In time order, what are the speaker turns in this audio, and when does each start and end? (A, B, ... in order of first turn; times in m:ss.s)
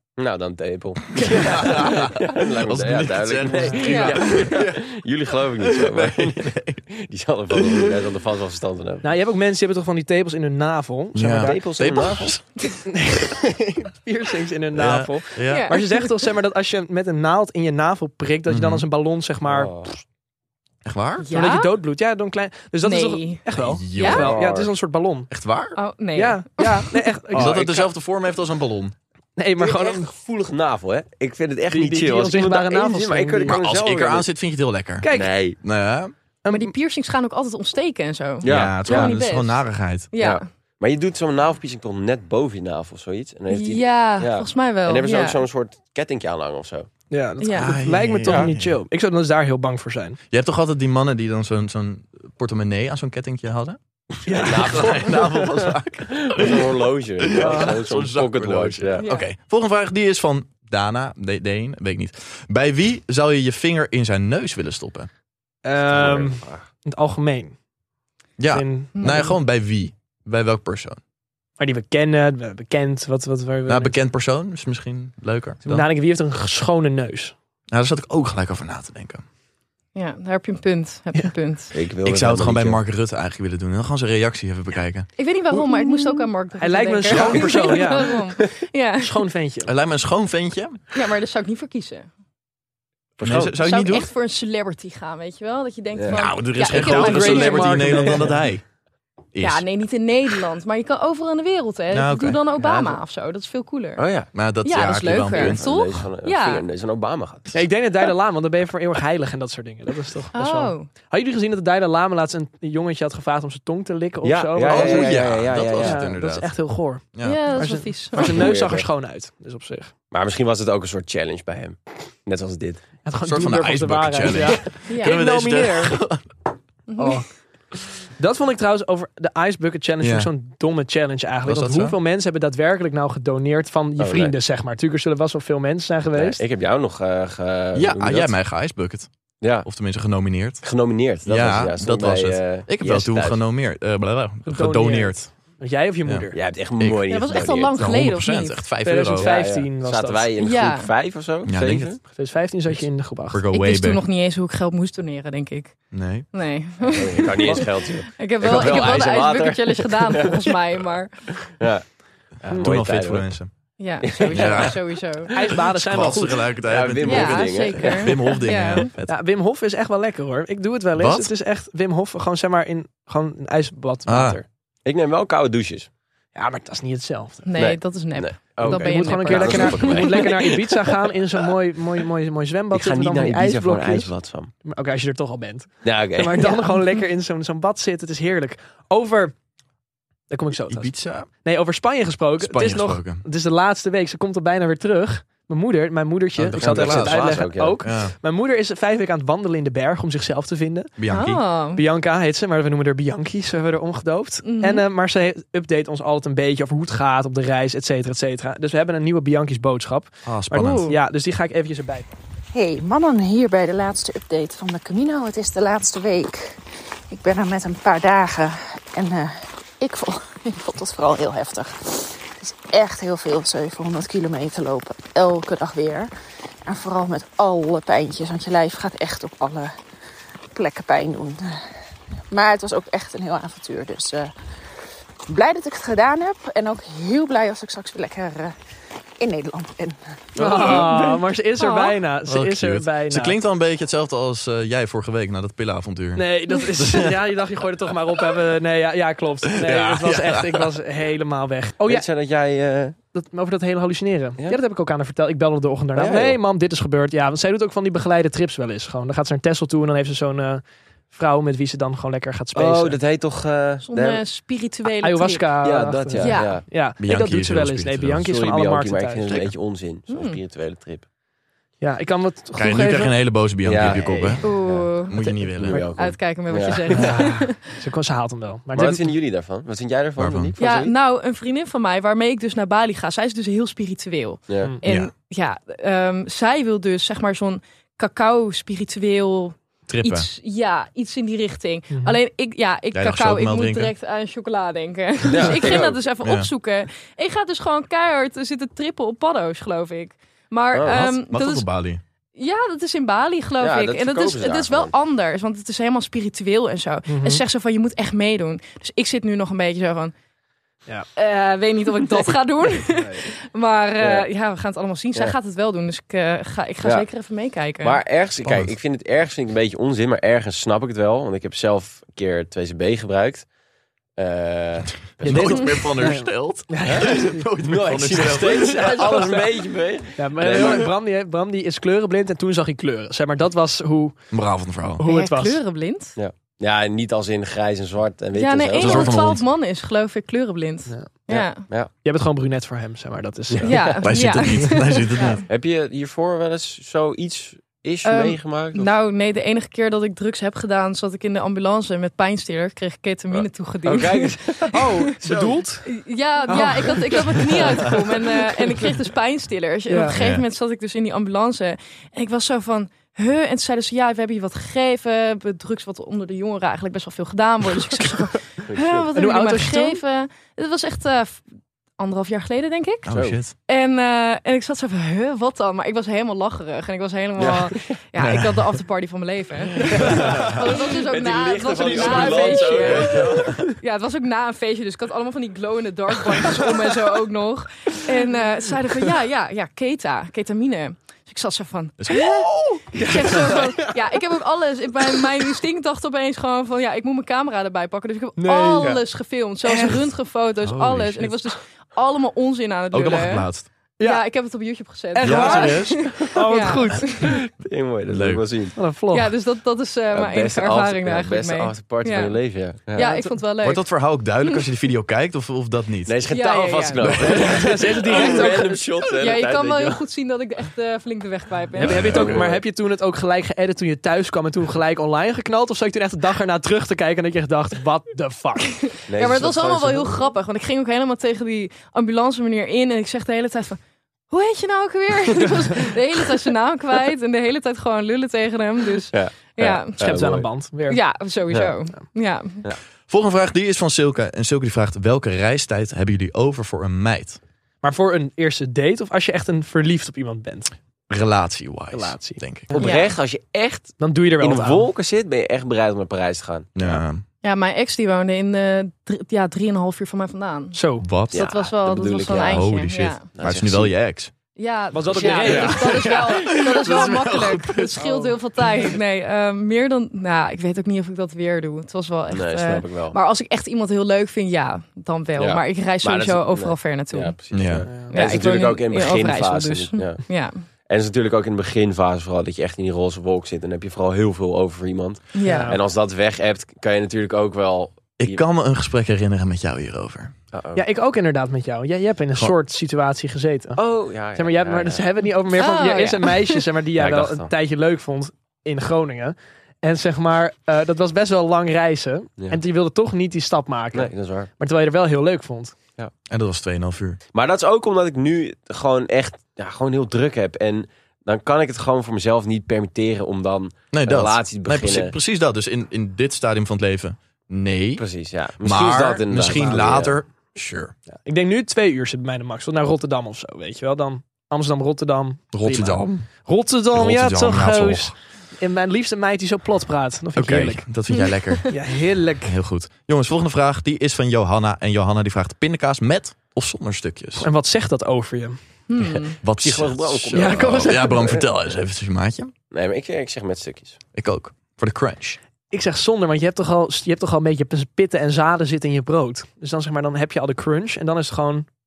0:00.2-0:09.1 A
0:01.2-0:04.9 B
0:01.2-0:01.5 C
0:03.8-0:04.2 D
0:05.6-0:06.8 B
0:07.5-0:07.9 B
0:09.0-0:11.6 C
0:11.1-0:12.7 B
0:11.3-0:12.3 A
0:12.8-0:19.8 C
0:14.7-0:15.7 B
0:15.5-0:16.2 D
0:18.5-0:18.8 B
0:19.5-0:19.9 A
0:20.8-0:21.3 B
0:21.2-0:21.7 D
0:21.3-0:25.3 C
0:22.8-0:23.4 D
0:23.5-0:24.4 B
0:24.0-0:24.2 D
0:24.2-0:24.7 A
0:25.3-0:25.8 B
0:25.8-0:27.0 D
0:26.1-0:27.8 C
0:27.3-0:28.9 B
0:29.4-0:30.1 C
0:29.6-0:34.3 A
0:31.7-0:33.6 C
0:33.5-0:36.1 B
0:35.0-0:35.3 C
0:35.1-0:35.6 A
0:36.4-0:36.7 C
0:36.5-0:40.4 D
0:38.4-0:39.1 A
0:38.4-0:40.1 B
0:40.2-0:46.9 A
0:43.5-0:45.4 D
0:47.1-0:50.2 C
0:47.4-0:47.8 D
0:47.6-0:48.8 B
0:48.2-0:48.5 A
0:50.3-0:53.8 B
0:54.2-0:54.9 C
0:54.3-0:59.0 A
0:54.4-1:05.1 B
0:57.4-0:57.8 C
0:59.0-0:59.3 D
1:05.6-1:07.5 C
1:05.8-1:06.6 A
1:08.4-1:11.0 B
1:08.5-1:09.3 C
1:09.0-1:09.3 D
1:11.6-1:14.0 C
1:13.6-1:15.9 B
1:15.6-1:17.3 C
1:17.7-1:19.2 B
1:19.9-1:21.7 D
1:21.7-1:22.8 A
1:22.0-1:25.1 B
1:25.2-1:29.2 D
1:25.5-1:28.2 C
1:27.1-1:27.6 B
1:29.0-1:29.7 C
1:29.6-1:30.8 B
1:30.9-1:32.1 D
1:33.2-1:33.6 A
1:33.2-1:34.1 B
1:33.6-1:38.0 D
1:36.0-1:36.2 A
1:36.1-1:38.6 B
1:36.7-1:38.4 C
1:39.3-1:39.6 B
1:39.4-1:44.0 D
1:41.9-1:42.4 B
1:42.6-1:43.0 A
1:44.0-1:44.3 A
1:44.3-1:45.6 B
1:44.6-1:46.6 D
1:45.3-1:47.5 A
1:47.5-1:59.9 C
1:50.3-1:50.9 D
1:54.2-1:56.0 A
1:54.6-1:56.5 B
1:57.1-1:57.4 B
1:57.2-1:58.5 D
1:58.2-1:58.9 A
2:00.1-2:02.8 A
2:03.0-2:06.0 C
2:03.2-2:06.2 B
2:04.9-2:05.2 D
2:06.9-2:07.2 D
2:07.0-2:07.3 C
2:08.2-2:16.4 C
2:10.0-2:10.3 B
2:11.4-2:12.0 B
2:14.0-2:14.4 A
2:16.1-2:18.3 A
2:17.7-2:19.1 B
2:19.4-2:19.7 A
2:19.6-2:20.6 B
2:20.6-2:23.4 A
2:21.2-2:25.3 B
2:24.5-2:26.4 C
2:26.0-2:29.3 B
2:26.3-2:27.9 A
2:27.1-2:28.6 D
2:28.8-2:30.3 C
2:29.2-2:32.0 A
2:30.4-2:30.9 D
2:31.4-2:32.0 B
2:32.1-2:33.4 C
2:32.7-2:34.0 B
2:33.5-2:41.1 D
2:35.9-2:36.3 B
2:36.8-2:40.4 A
2:41.4-2:43.3 A
2:42.5-2:43.5 B
2:43.8-2:45.3 D
2:44.0-2:45.3 A
2:44.2-2:44.8 B
2:45.3-2:46.5 C
2:45.6-2:49.2 B
2:46.6-2:48.8 A
2:47.0-2:48.9 D
2:49.1-2:54.4 C
2:50.9-2:51.3 B
2:54.1-2:54.4 B
2:54.8-2:55.9 A
2:56.3-2:57.4 C
2:57.4-3:00.3 D
2:57.6-3:00.8 A
2:58.6-3:04.1 C
3:02.7-3:04.5 A
3:04.6-3:09.3 C
3:05.8-3:06.5 A
3:06.4-3:07.0 D
3:10.3-3:10.9 C
3:10.7-3:11.3 B
3:11.4-3:20.9 C
3:12.4-3:13.2 B
3:16.4-3:18.1 B
3:16.5-3:17.8 A
3:21.0-3:21.4 B
3:21.1-3:21.8 D
3:21.7-3:32.1 C
3:24.4-3:24.8 D
3:30.2-3:30.9 B
3:30.6-3:31.0 D
3:32.5-3:46.1 E
3:46.6-3:49.7 E
3:50.5-3:51.6 E
3:52.3-3:54.3 E
3:55.3-3:58.5 E
3:59.2-4:00.2 E
4:00.4-4:01.1 A
4:00.4-4:03.4 C
4:01.6-4:02.0 D
4:02.3-4:07.2 B
4:06.2-4:12.0 C
4:09.6-4:10.7 B
4:11.8-4:13.0 A
4:13.1-4:23.0 C
4:16.0-4:16.4 A
4:22.5-4:24.2 A
4:23.8-4:25.5 D
4:25.0-4:29.4 C
4:25.6-4:26.7 A
4:26.1-4:26.6 D
4:27.0-4:28.2 B
4:28.2-4:31.0 A
4:30.1-4:30.4 D
4:31.8-4:33.1 C
4:32.6-4:34.5 B
4:33.6-4:34.9 A
4:33.8-4:34.3 C
4:34.4-4:35.1 D
4:35.1-4:35.8 B
4:35.2-4:35.9 C
4:35.6-4:37.2 A
4:36.0-4:37.6 D
4:36.9-4:39.1 C
4:38.7-4:40.9 A
4:40.2-4:40.5 B
4:40.6-5:01.7 D
4:44.5-4:44.7 A
4:44.8-4:45.1 B
4:49.9-4:50.3 B
4:51.9-4:52.2 C
4:52.9-4:53.9 B
4:55.3-4:56.0 A
4:56.2-4:56.5 B
5:00.7-5:01.1 A
5:00.9-5:02.0 B
5:02.3-5:10.1 D
5:03.6-5:04.9 A
5:07.1-5:07.4 C
5:11.2-5:18.0 D
5:14.0-5:14.3 A
5:17.8-5:23.5 A
5:18.4-5:18.8 B
5:24.2-5:25.8 A
5:25.2-5:29.0 B
5:25.2-5:27.5 C
5:26.8-5:30.9 A
5:28.4-5:29.6 C
5:30.2-5:34.3 C
5:34.3-5:35.0 B
5:35.0-5:35.6 C
5:35.0-5:36.2 D
5:36.2-5:39.1 A
5:38.3-5:41.6 D
5:38.7-5:39.4 B
5:41.3-5:41.9 A
5:42.0-5:43.9 C
5:43.5-5:44.0 A
5:43.6-5:45.4 D
5:44.0-5:45.4 B
5:45.5-5:48.9 A
5:48.0-5:54.8 D
5:53.3-5:55.6 A
5:54.7-5:55.9 C
5:55.8-6:11.4 D
5:56.4-5:57.6 C
5:59.9-6:00.1 C
6:00.1-6:00.4 B
6:08.7-6:09.1 A
6:09.1-6:10.0 C
6:12.0-6:32.4 D
6:13.1-6:13.5 B
6:13.1-6:13.4 A
6:17.4-6:17.9 A
6:18.2-6:18.7 B
6:20.0-6:20.3 C
6:20.1-6:20.6 B
6:20.2-6:23.6 A
6:21.8-6:23.6 C
6:22.8-6:23.2 B
6:32.0-6:33.0 B
6:32.4-6:33.9 C
6:32.9-6:43.5 D
6:38.4-6:39.0 C
6:39.6-6:40.0 C
6:40.6-6:41.4 B
6:42.9-6:43.7 B
6:44.0-6:44.2 C
6:44.0-6:47.3 D
6:45.1-6:47.2 C
6:45.2-6:46.1 B
6:47.2-6:48.7 A
6:48.1-6:48.4 B
6:48.8-6:49.3 C
6:49.1-6:52.4 D
6:50.1-6:53.1 A
6:52.9-6:53.8 D
6:53.0-6:53.4 C
6:53.6-6:56.2 B
6:56.0-7:00.0 A
6:56.3-6:57.5 D
6:57.0-6:57.6 B
6:57.2-6:58.8 C
6:58.0-7:02.0 D
7:01.8-7:02.5 B
7:01.8-7:08.8 C
7:02.0-7:02.6 A
7:08.8-7:20.0 D
7:09.1-7:10.3 A
7:19.1-7:20.5 A
7:20.0-7:21.0 C
7:20.9-7:22.6 D
7:23.1-7:27.4 B
7:27.8-7:30.7 C
7:31.1-7:32.7 B
7:31.9-7:32.9 C
7:32.7-7:37.0 A
7:32.8-7:33.1 D
7:34.0-7:34.9 C
7:36.8-7:37.2 B
7:37.4-7:43.2 D
7:40.7-7:41.1 C
7:41.0-7:41.4 B
7:41.3-7:42.7 A
7:42.3-7:44.3 B
7:43.3-7:43.9 A
7:44.6-7:57.3 D
7:44.9-7:46.1 C
7:45.2-7:45.7 A
7:45.4-7:48.0 B
7:48.0-7:48.3 C
7:52.3-7:53.2 A
7:55.4-8:08.4 A
7:57.5-7:57.9 B
7:57.9-7:58.2 C
7:58.1-8:00.6 D
8:05.3-8:05.7 D
8:05.4-8:05.8 C
8:08.2-8:10.3 B
8:10.5-8:10.8 A
8:10.7-8:13.8 C
8:13.8-8:15.0 A
8:14.3-8:25.8 C
8:15.5-8:16.6 D
8:17.0-8:17.5 A
8:23.9-8:24.5 A
8:26.3-8:27.2 B
8:27.3-8:35.1 A
8:33.9-8:38.0 B
8:38.0-8:40.2 A
8:38.6-8:40.9 B
8:41.2-8:50.9 C
8:45.5-8:46.3 B
8:46.9-8:48.1 B
8:50.3-8:51.8 B
8:51.7-8:52.6 C
8:52.4-8:57.5 B
8:57.4-8:58.6 C
8:58.9-8:59.4 D
8:59.0-9:01.4 A
8:59.4-9:02.5 B
9:00.3-9:01.3 C
9:02.7-9:04.0 A
9:04.1-9:05.4 B
9:05.7-9:11.7 C